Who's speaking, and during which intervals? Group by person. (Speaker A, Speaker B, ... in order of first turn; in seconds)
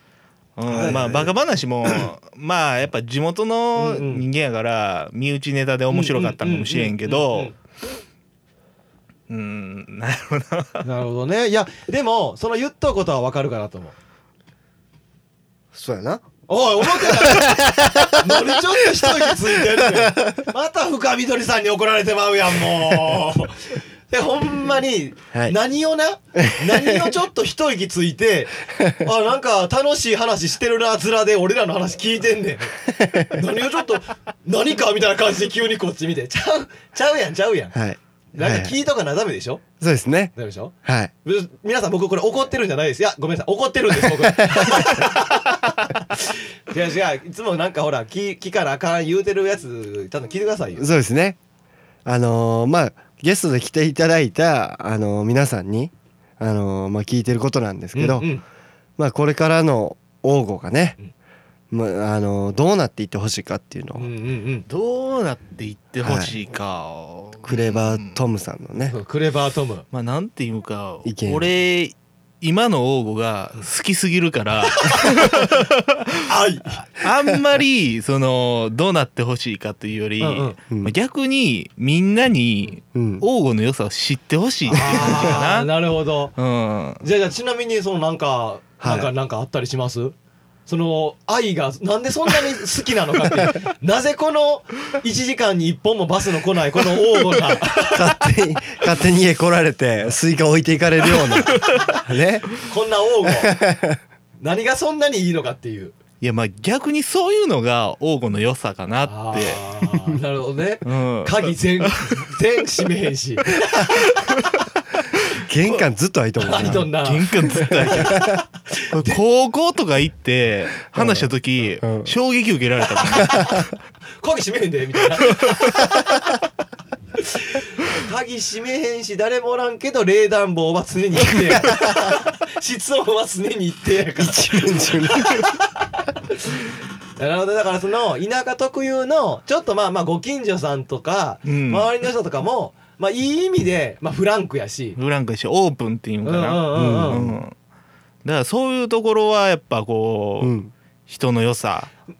Speaker A: 0.6-7.5, 9.3-10.9, 64.7-68.2, 69.9-76.2, 77.0-85.7, 86.4-87.0, 106.2-109.7, 110.8-112.3, 114.2-114.6, 116.6-118.4, 118.9-123.7, 125.3-125.8, 141.5-141.9, 145.0-147.5, 148.2-150.6, 151.1-151.9
Speaker B: 0.7-1.3, 3.8-4.2, 5.9-7.5, 10.8-13.9, 16.5-37.8, 38.3-39.6, 40.4-50.9, 57.9-58.4, 64.0-64.7, 68.8-69.8, 74.7-75.5, 76.3-76.9, 80.2-80.6, 84.7-86.3, 87.0-90.2, 90.7-98.2, 101.7-102.0, 102.6-103.6, 104.4-105.9, 109.1-114.1, 116.4-119.2, 123.2-123.6, 124.2-126.0, 127.2-136.7, 137.2-145.0, 146.2-147.2
Speaker C: 15.7-16.2, 17.0-20.5, 26.4-27.1, 32.9-33.4, 37.7-38.7, 39.8-40.3, 40.9-41.1, 44.1-45.0, 50.8-51.4, 52.0-58.3, 59.0-61.0, 61.7-64.1, 66.0-66.3, 67.4-69.0, 71.0-71.5, 82.9-83.2, 84.8-85.2, 88.8-89.1, 97.8-102.5, 103.2-104.0, 115.3-116.9, 117.5-118.4, 121.0-121.3, 121.8-122.1, 134.2-135.5, 146.7-147.4, 150.4-150.7